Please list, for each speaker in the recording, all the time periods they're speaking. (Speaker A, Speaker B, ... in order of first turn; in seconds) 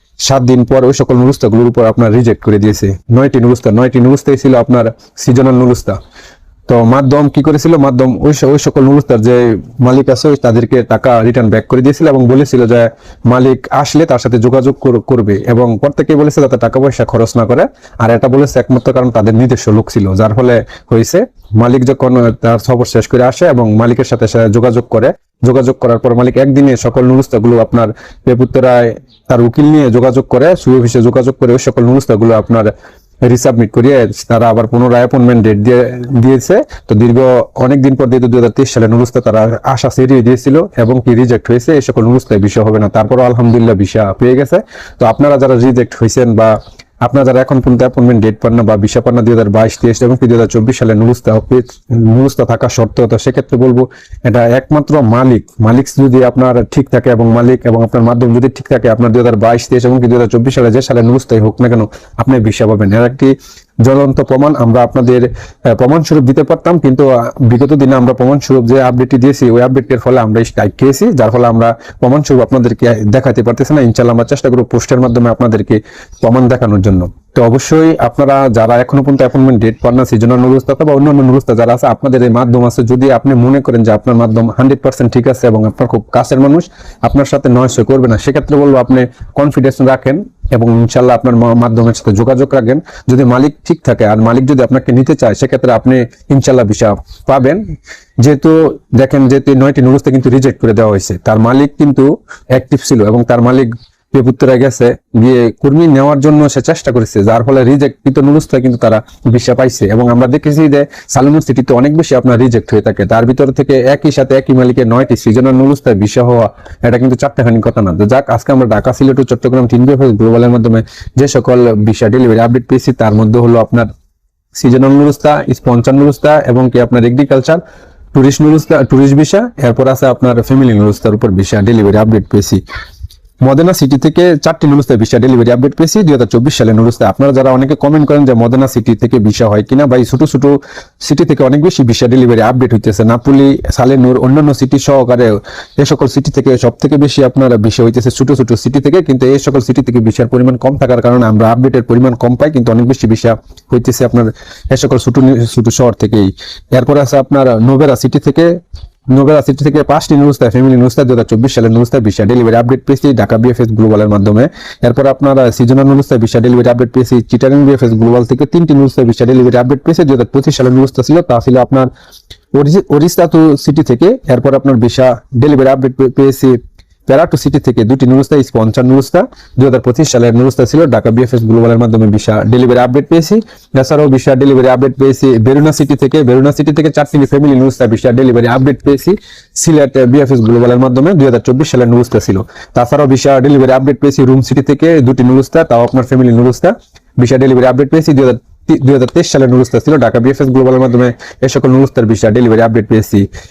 Speaker A: 0.2-6.0, 6.7-32.7, 33.3-63.3, 63.8-97.6, 98.2-123.9, 124.6-127.6, 128.1-132.6, 133.4-158.6, 159.1-171.9, 172.5-203.3